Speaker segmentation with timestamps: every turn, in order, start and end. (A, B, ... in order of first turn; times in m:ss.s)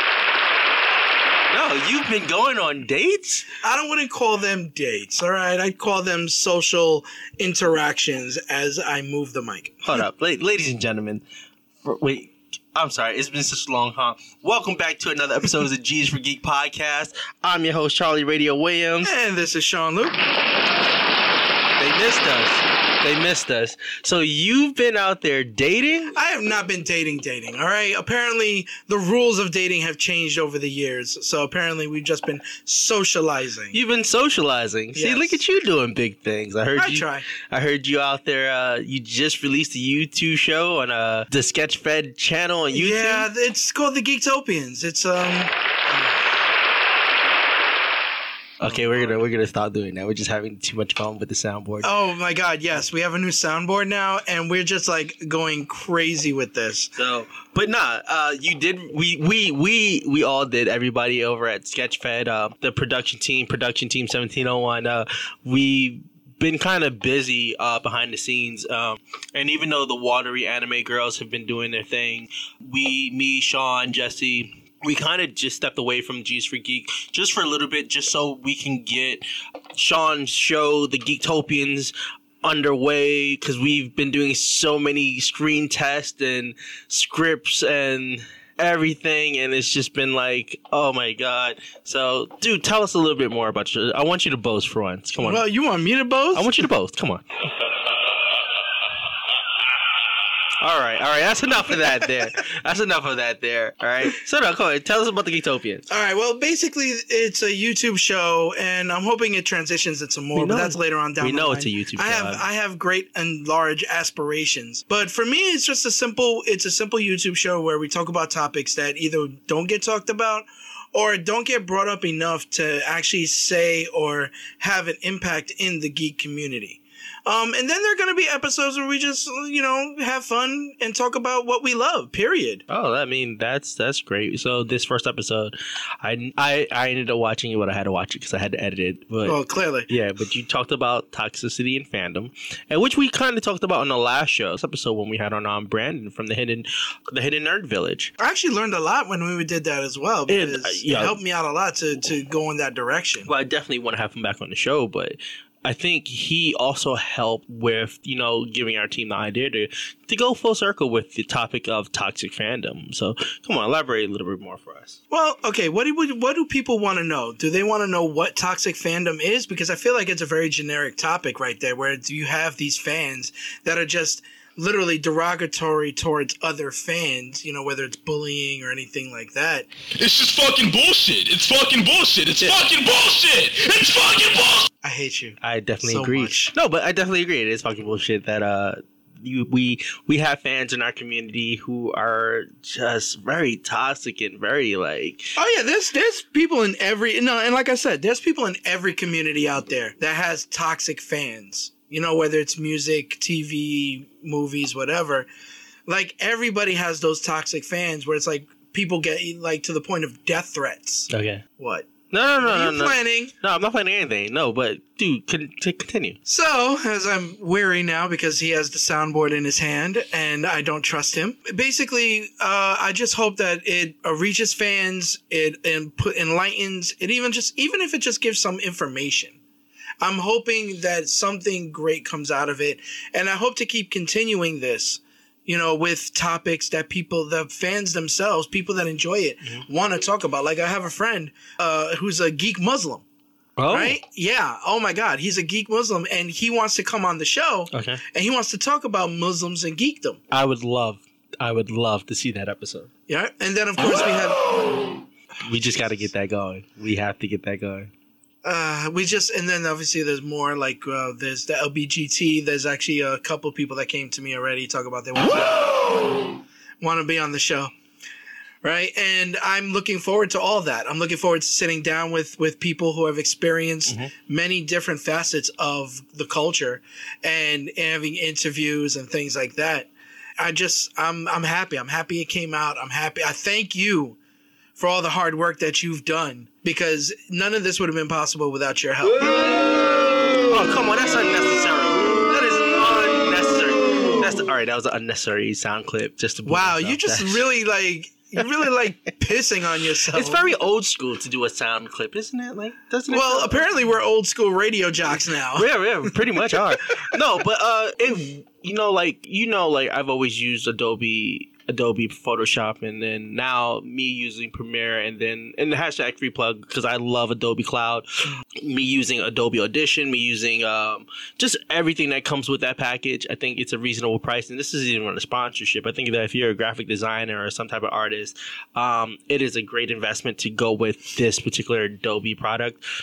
0:01.5-0:03.5 A
0:03.6-0:10.0 B
0:09.8-0:11.2 A
0:11.8-0:19.1 A
0:19.0-0:20.2 B
0:21.8-0:26.2 A
0:26.1-0:33.8 B
0:33.7-0:43.3 A
0:34.9-0:35.4 B
0:36.8-0:37.3 B
0:42.7-0:46.2 B
0:48.6-0:51.9 A
0:48.6-0:49.2 B
0:51.8-0:56.9 B
0:57.0-1:19.2 A
1:19.8-1:35.4 A
1:35.2-1:36.7 B
1:36.3-1:37.2 A
1:40.6-1:45.9 A
1:45.9-2:12.6 B
1:50.4-1:52.4 A
2:12.7-2:28.1 A
2:19.2-2:19.9 B
2:28.2-2:33.3 B
2:30.3-2:31.2 A
2:33.2-2:45.0 A
2:45.1-2:59.7 B
3:00.0-3:04.7 C
3:04.8-3:06.5 B
3:05.4-3:15.3 A
3:15.4-3:25.3 B
3:25.9-3:33.3 B
3:31.1-3:31.4 A
3:32.1-3:36.2 A
3:36.3-3:49.4 B
3:50.0-4:03.0 B
4:03.6-4:04.0 A
4:03.7-4:10.2 B
4:07.7-4:08.0 A
4:10.3-4:12.9 A
4:13.1-4:14.8 B
4:15.4-4:17.9 A
4:18.4-4:27.7 B
4:28.6-4:44.2 B
4:44.8-4:49.5 B
4:50.4-4:57.4 A
4:56.4-5:00.4 B
5:00.1-5:03.6 A
5:03.1-5:06.6 B
5:05.6-5:32.8 A